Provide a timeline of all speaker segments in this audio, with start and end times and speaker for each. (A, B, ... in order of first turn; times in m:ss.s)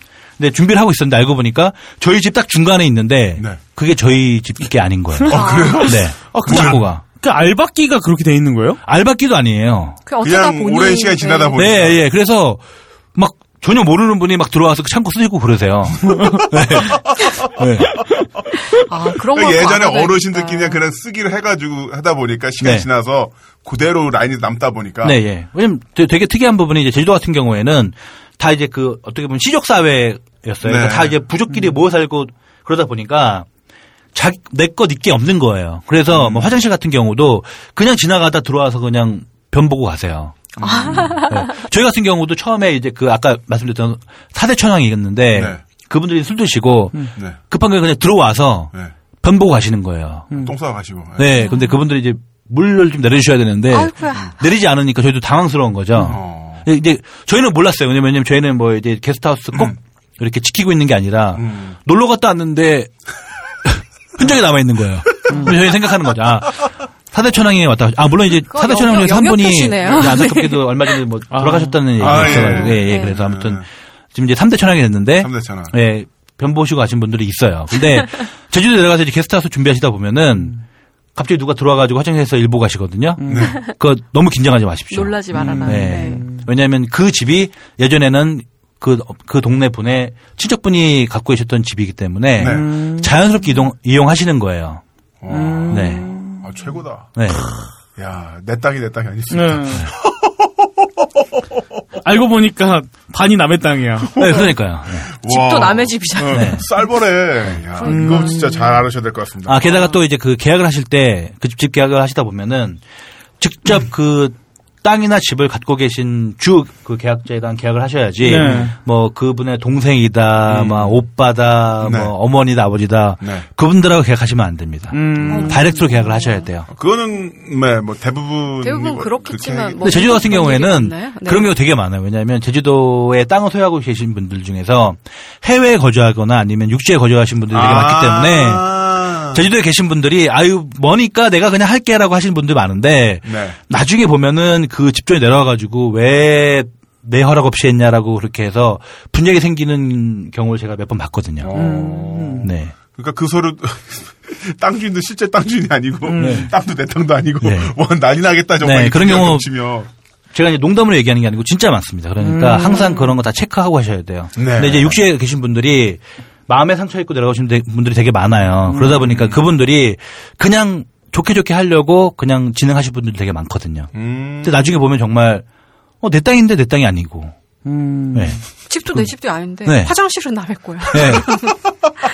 0:00.4-0:07.0 A
0:05.3-0:06.8 B
0:05.3-0:05.8 C
0:06.3-0:08.8 D
0:08.8-0:10.0 A
0:10.0-0:11.8 C
0:10.2-0:12.0 B
0:11.6-0:12.6 A
0:13.1-0:18.1 A
0:16.1-0:16.4 D
0:16.1-0:17.5 B
0:18.6-0:20.8 C
0:19.2-0:25.2 B
0:22.6-0:22.9 A
0:25.0-0:33.5 A
0:30.6-0:31.2 B
0:34.1-0:40.4 A
0:36.1-0:36.6 B
0:40.6-0:41.2 B
0:40.6-0:41.6 C
0:41.0-0:50.3 A
0:45.3-0:45.6 B
0:50.3-0:50.5 D
0:50.4-0:51.5 B
0:51.2-1:02.9 A
0:51.4-0:51.8 C
0:53.7-0:54.4 C
0:56.0-0:56.7 B
1:01.3-1:01.8 B
1:03.6-1:20.6 A
1:05.3-1:05.6 D
1:08.5-1:10.6 C
1:11.3-1:12.6 D
1:12.0-1:13.6 B
1:12.6-1:13.2 C
1:15.2-1:15.7 B
1:21.1-1:34.8 A
1:23.2-1:23.5 D
1:23.2-1:23.6 B
1:24.9-1:26.2 C
1:25.4-1:25.7 B
1:25.4-1:26.4 D
1:32.4-1:32.7 B
1:32.4-1:33.1 D
1:35.2-1:37.2 B
1:35.3-1:36.4 D
1:35.7-1:36.1 A
1:37.2-1:37.6 A
1:38.0-1:41.6 B
1:39.3-1:39.8 D
1:42.0-1:44.1 D
1:44.1-1:49.7 B
1:44.2-1:45.1 A
1:45.2-1:46.6 C
1:46.2-1:46.5 D
1:46.3-1:46.6 A
1:47.8-1:48.5 C
1:47.8-1:48.8 D
1:49.4-1:52.8 A
1:53.4-2:06.7 A
1:58.2-1:58.7 D
1:58.3-1:58.7 B
2:00.4-2:01.0 B
2:01.8-2:02.1 B
2:03.2-2:03.5 B
2:04.9-2:05.6 D
2:05.2-2:05.5 B
2:05.3-2:06.5 C
2:06.7-2:10.2 B
2:08.6-2:11.5 C
2:09.8-2:18.6 A
2:17.5-2:19.5 B
2:19.3-2:31.5 A
2:23.2-2:23.6 B
2:31.4-2:39.9 B
2:31.5-2:32.5 D
2:32.4-2:32.7 A
2:36.1-2:36.5 D
2:36.2-2:36.5 A
2:37.4-2:37.7 A
2:38.6-2:39.4 A
2:40.3-2:53.9 A
2:42.2-2:43.1 D
2:44.4-2:45.0 B
2:48.7-2:49.1 D
2:48.9-2:49.4 B
2:53.9-2:54.7 B
2:54.4-2:55.4 A
2:56.0-2:57.3 A
2:57.6-2:58.4 D
2:58.1-2:59.1 A
2:58.7-3:01.6 C
2:59.6-2:59.9 A
3:00.9-3:01.5 A